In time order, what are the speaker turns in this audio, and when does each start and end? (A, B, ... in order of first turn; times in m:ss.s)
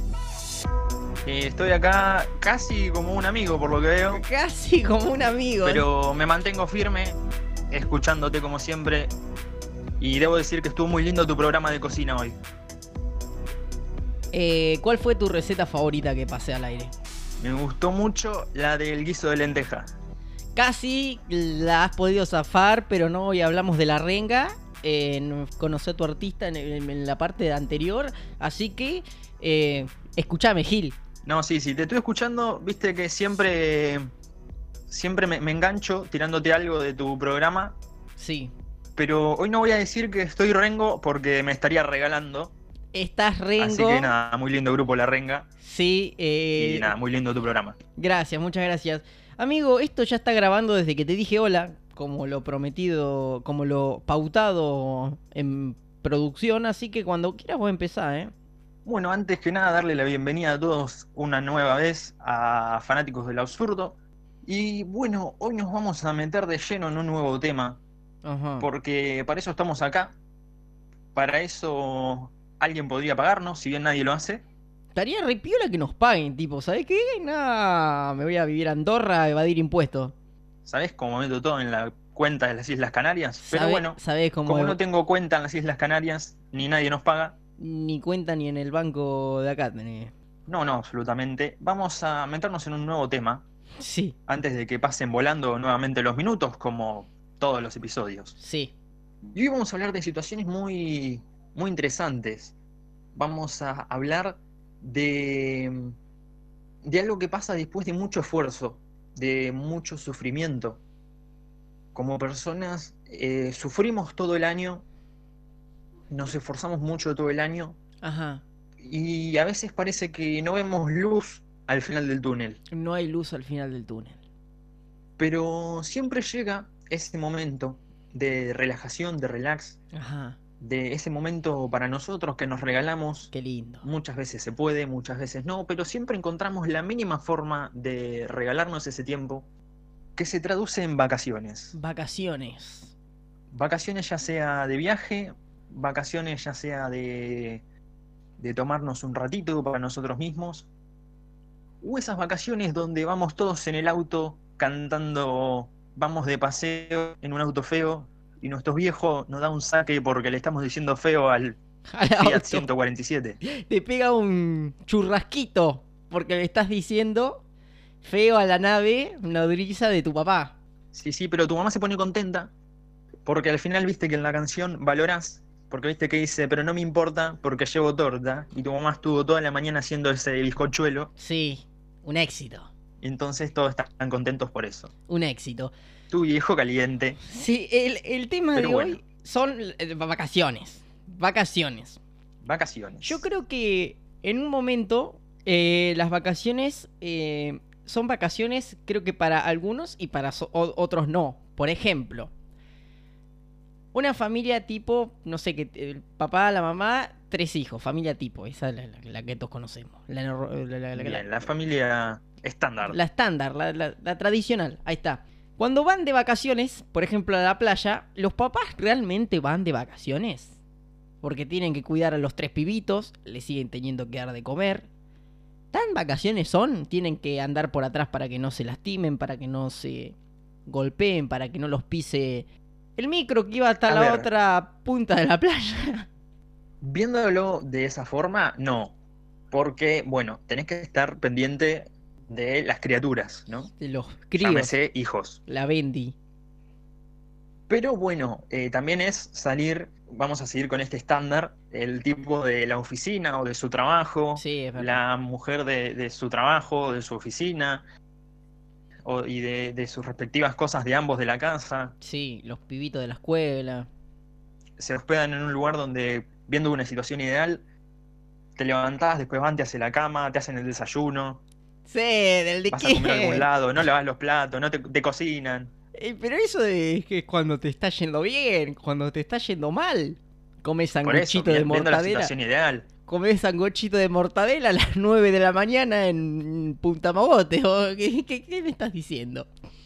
0:01.2-0:04.2 A
0:04.1-0:05.9 B
0:05.6-0:07.2 A
0:07.7-0:09.1 A
0:10.0-0:12.4 A
0:14.3-0:16.9 B
0:17.4-0:19.9 A
0:20.6-0:31.0 B
0:31.2-0:34.1 A
0:34.9-0:37.8 A
0:38.2-0:38.5 B
0:39.0-0:42.5 A
0:42.9-0:44.1 B
0:43.6-0:45.5 A
0:45.6-0:46.9 B
0:46.6-0:47.8 A
0:48.0-0:58.3 B
0:58.8-1:07.8 A
1:08.2-1:08.7 B
1:08.6-1:10.2 A
1:11.1-1:14.4 A
1:15.0-1:20.1 B
1:20.6-1:27.4 A
1:23.4-1:24.8 B
1:27.6-1:30.1 B
1:30.5-1:33.4 A
1:33.8-1:34.1 B
1:34.3-1:38.3 A
1:38.4-1:38.7 B
1:39.3-1:42.5 A
1:43.1-1:46.0 A
1:46.8-1:50.8 A
1:51.9-1:54.8 A
1:56.1-1:57.8 A
1:58.0-1:58.4 B
1:58.8-2:02.6 A
2:02.7-2:04.2 B
2:05.2-2:09.8 A
2:09.9-2:10.4 B
2:10.6-2:13.3 A
2:13.3-2:13.9 B
2:13.8-2:19.5 A
2:20.2-2:21.7 A
2:21.7-2:22.9 B
2:23.5-2:27.6 A
2:28.4-2:30.7 A
2:31.8-2:41.6 A
2:41.9-2:42.7 B
2:42.2-2:43.4 A
2:43.4-2:47.4 B
2:48.0-2:50.6 B
2:50.9-2:52.5 A
2:53.2-3:01.1 A
3:01.2-3:02.7 B
3:03.0-3:04.9 A
3:05.1-3:05.7 B
3:06.1-3:07.2 A
3:07.2-3:12.0 B
3:08.5-3:09.0 A
3:12.4-3:13.2 A
3:13.0-3:22.3 B
3:23.9-3:31.5 B
3:30.9-3:33.0 A
3:32.8-3:40.6 B
3:41.2-3:44.9 B
3:45.7-3:56.1 B
3:53.9-3:54.3 A
3:56.8-3:58.9 A
3:59.5-4:03.7 A
4:03.7-4:04.7 B
4:04.4-4:05.4 A
4:05.5-4:06.1 B
4:07.7-4:17.8 A
4:14.4-4:15.0 B
4:19.0-4:21.9 A
4:22.0-4:23.9 B
4:24.8-4:27.6 A
4:28.6-4:31.4 A
4:31.8-4:33.5 B
4:32.7-4:35.7 A
4:35.9-4:42.3 B
4:41.0-4:42.9 A
4:43.0-4:49.5 B